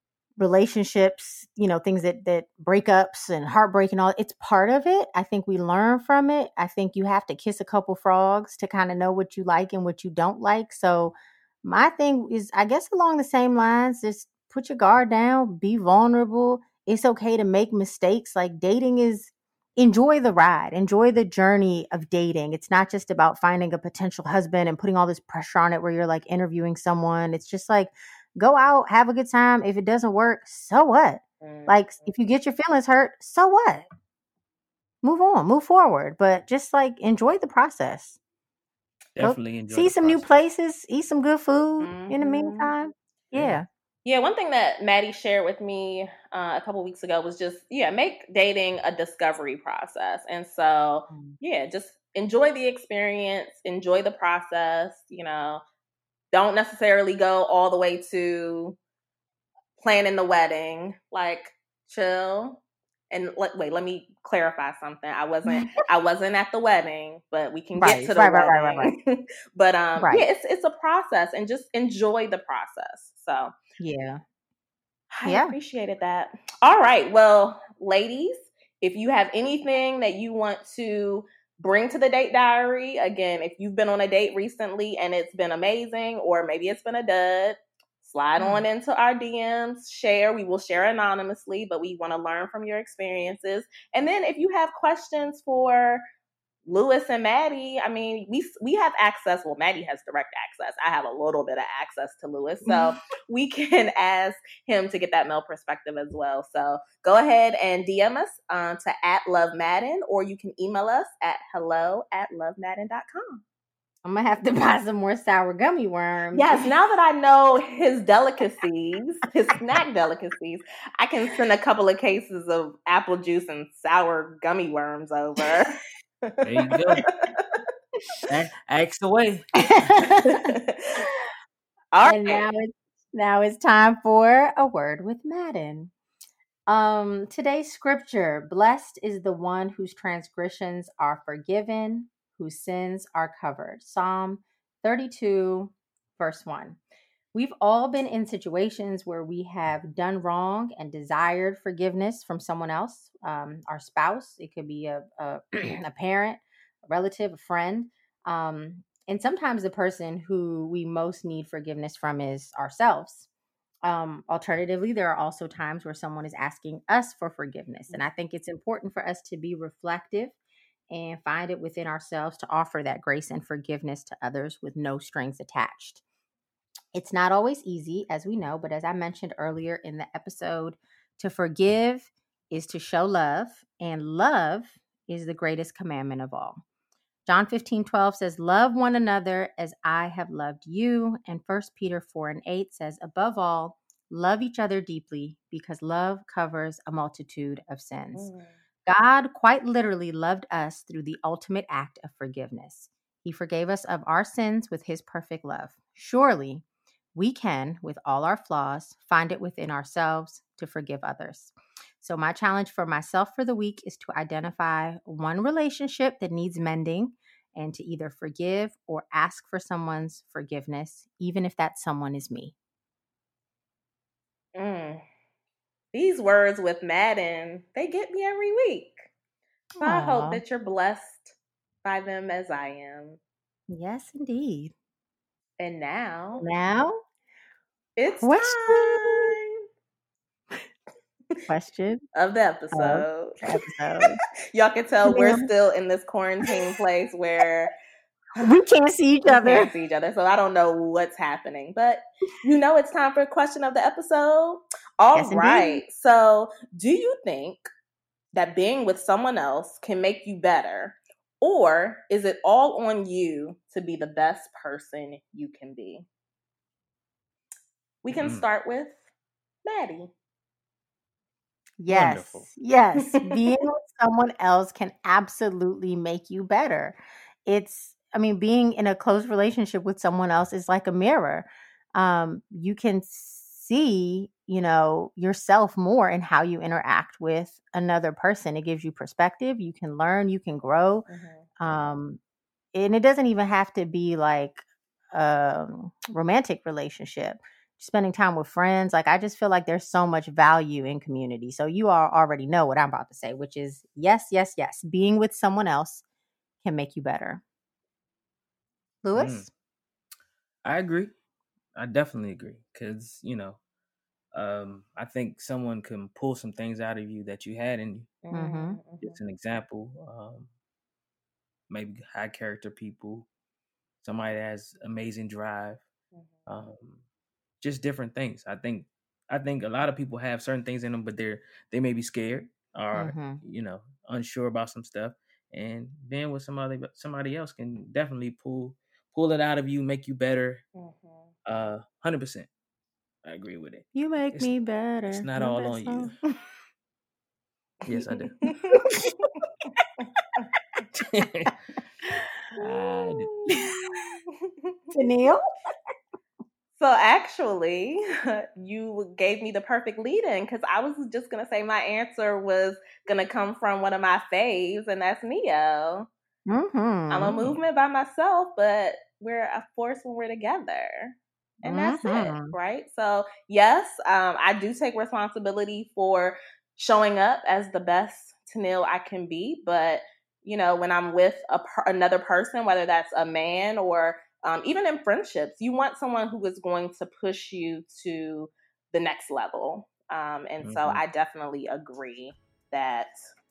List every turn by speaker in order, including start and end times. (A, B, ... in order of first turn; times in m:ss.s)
0:00.4-0:33.8 A
0:31.4-0:32.1 B
0:35.0-0:38.2 A
0:39.1-0:40.3 C
0:39.2-0:43.6 A
0:41.8-0:42.7 B
0:43.3-0:43.6 C
0:44.0-0:55.6 B
0:51.1-0:51.4 A
0:56.3-0:58.8 B
0:59.8-1:13.5 B
1:07.8-1:08.9 A
1:10.0-1:10.2 A
1:13.8-1:14.2 A
1:15.1-1:36.0 B
1:15.2-1:15.5 A
1:28.4-1:28.6 A
1:36.6-1:53.4 B
1:42.7-1:42.9 A
1:54.0-1:56.7 A
1:56.3-2:06.5 B
2:06.4-2:07.0 C
2:07.0-2:07.6 B
2:08.3-2:09.5 C
2:09.6-2:10.5 A
2:10.2-2:11.0 B
2:11.9-2:12.4 B
2:12.0-2:15.9 A
2:16.7-2:26.8 A
2:27.3-2:43.3 A
2:43.8-2:50.4 A
2:50.9-2:56.0 A
2:56.9-3:06.6 A
3:07.2-3:18.3 A
3:18.1-3:18.6 B
3:18.8-3:26.6 A
3:27.1-3:42.5 A
3:44.5-3:45.0 B
3:45.9-3:49.1 B
3:49.8-3:50.4 A
3:49.8-3:53.2 B
3:53.7-3:54.7 A
3:55.6-3:56.4 B
3:56.4-3:57.0 A
3:58.0-3:59.6 B
3:58.2-3:59.4 A
4:01.5-4:02.0 A
4:02.1-4:03.4 B
4:02.7-4:04.2 A
4:04.5-4:07.7 B
4:05.0-4:05.5 A
4:08.4-4:09.7 A
4:09.2-4:17.7 B
4:15.1-4:15.8 A
4:18.3-4:26.0 B
4:28.0-4:29.0 B
4:28.2-4:28.4 C
4:29.6-4:30.1 B
4:31.8-4:51.0 A
4:31.9-4:32.5 C
4:33.0-4:33.6 B
4:51.1-4:51.5 B
4:51.6-4:52.2 A
4:52.7-5:06.0 A
5:06.6-5:07.4 A
5:09.0-5:09.5 A
5:09.1-5:09.5 C
5:10.6-5:11.1 C
5:11.7-5:13.6 C
5:14.3-5:18.2 C
5:18.2-5:19.2 B
5:18.3-5:18.8 A
5:19.0-5:20.5 C
5:21.7-5:23.3 C
5:24.0-5:25.8 C
5:26.1-5:26.5 B
5:26.5-5:27.0 C
5:27.6-5:40.6 C
5:32.9-5:33.4 A
5:40.7-5:41.3 B
5:41.4-5:42.5 C
5:43.2-5:44.5 C
5:43.9-5:46.4 A
5:45.1-5:46.1 C
5:47.8-5:48.4 C
5:48.4-5:49.3 B
5:48.7-5:49.2 A
5:50.0-5:50.5 B
5:50.9-5:51.5 C
5:52.6-5:54.8 B
5:52.6-5:53.3 C
5:53.5-5:54.1 A
5:54.9-5:55.5 A
5:56.8-6:06.1 B
6:06.5-6:07.4 A
6:07.1-6:33.1 B
6:11.6-6:12.5 A
6:30.6-6:31.0 C